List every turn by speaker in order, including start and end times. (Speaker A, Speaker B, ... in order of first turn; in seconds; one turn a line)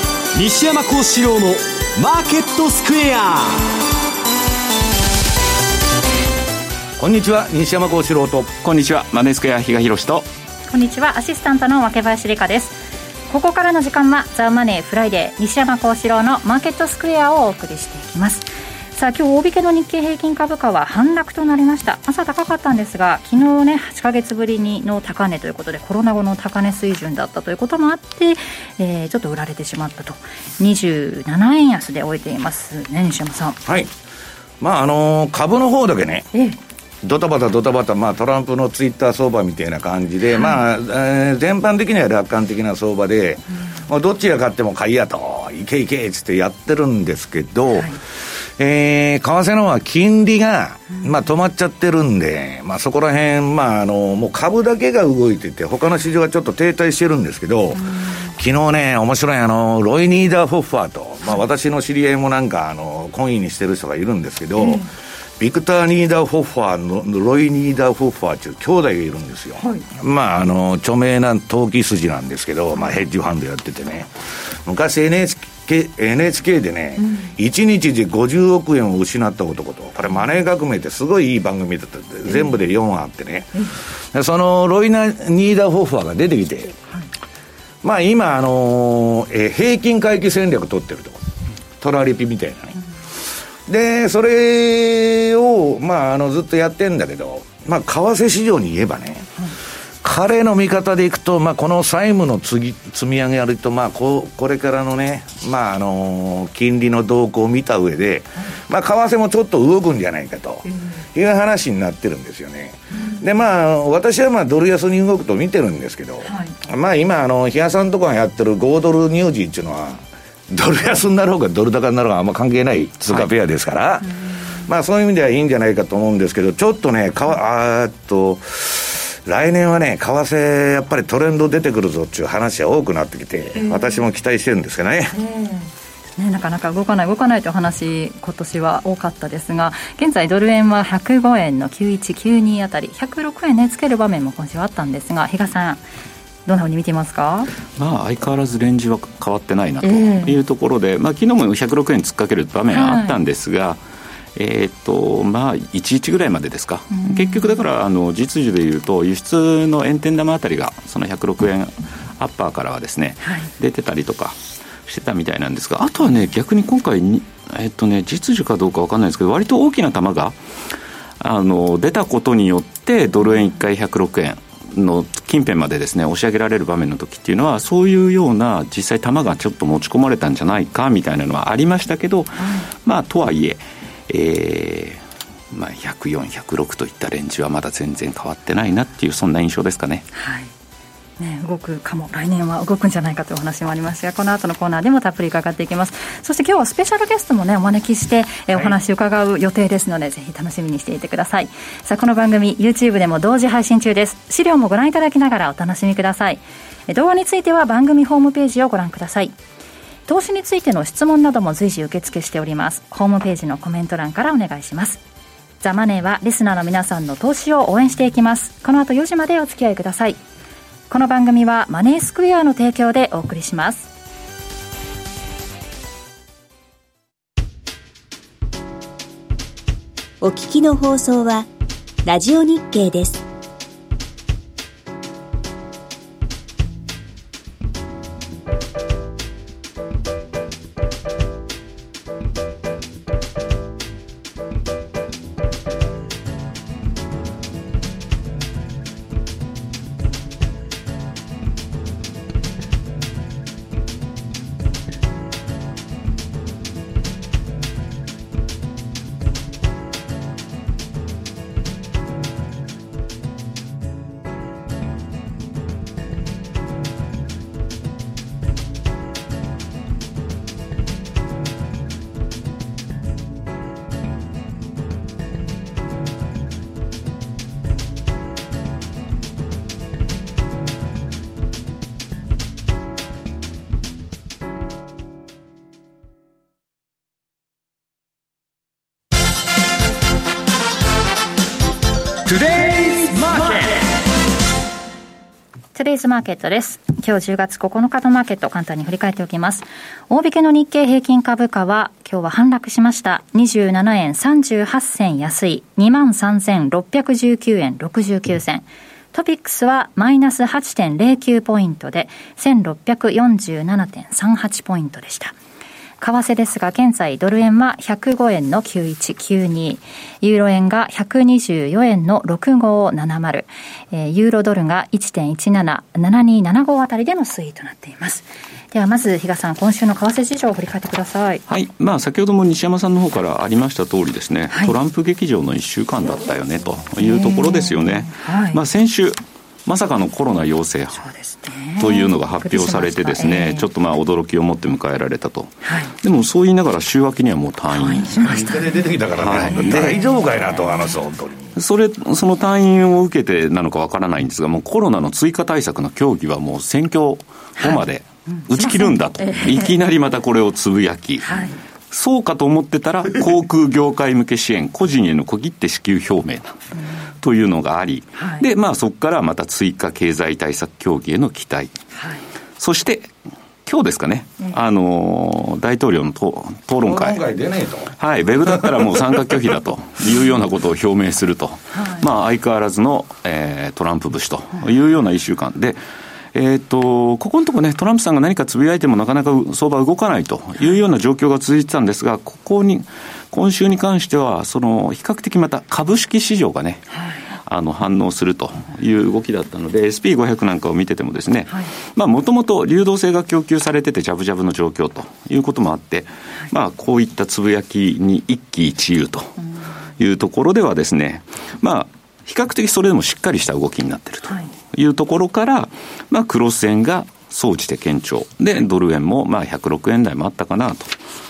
Speaker A: 0.3-3.7
Speaker B: 7.0-8.5
Speaker C: 8.6-10.3
Speaker D: 10.7-33.6
Speaker B: 33.6-33.9
Speaker B: 34.6-36.3
Speaker D: 36.3-36.6
Speaker B: 37.0-64.8
Speaker D: 57.8-58.2
Speaker D: 64.6-64.9
Speaker B: 65.4-86.7
Speaker D: 69.6-69.9
Speaker D: 77.0-77.3
Speaker B: 87.8-92.8
Speaker B: 93.7-99.4
Speaker B: 100.0-135.2
Speaker D: 116.2-116.6
Speaker D: 133.6-134.0
Speaker D: 135.1-145.8
Speaker D: 146.5-147.5
Speaker C: 147.8-153.8
Speaker D: 149.8-150.4
Speaker D: 152.7-153.2
Speaker C: 154.4-170.4
Speaker D: 156.9-157.6
Speaker C: 171.2-190.1
Speaker D: 182.4-182.7
Speaker D: 190.1-190.5
Speaker D: 191.2-209.3
Speaker D: 210.1-215.0
Speaker D: 215.6-220.2
Speaker D: 220.9-223.9
Speaker E: 230.2-231.5
Speaker E: 232.1-233.2
Speaker A: 292.3-293.8
Speaker D: 295.7-315.4
Speaker D: 316.0-331.4
Speaker C: 331.5-341.0
Speaker D: 337.0-338.6
Speaker D: 341.0-343.7
Speaker C: 341.8-348.5
Speaker D: 345.6-345.9
Speaker D: 347.7-348.6
Speaker B: 348.2-351.6
Speaker C: 349.2-350.0
Speaker D: 349.5-350.9
Speaker C: 351.6-361.4
Speaker D: 357.6-359.7
Speaker D: 361.2-361.6
Speaker C: 361.9-366.6
Speaker C: 367.2-371.8
Speaker D: 368.2-368.5
Speaker D: 372.0-372.2
Speaker C: 372.6-373.1
Speaker C: 373.7-377.2
Speaker B: 376.9-378.0
Speaker C: 378.0-385.8
Speaker B: 378.5-379.4
Speaker D: 381.8-382.0
Speaker C: 386.3-396.9
Speaker D: 396.9-397.2
Speaker C: 397.5-409.4
Speaker C: 410.0-420.9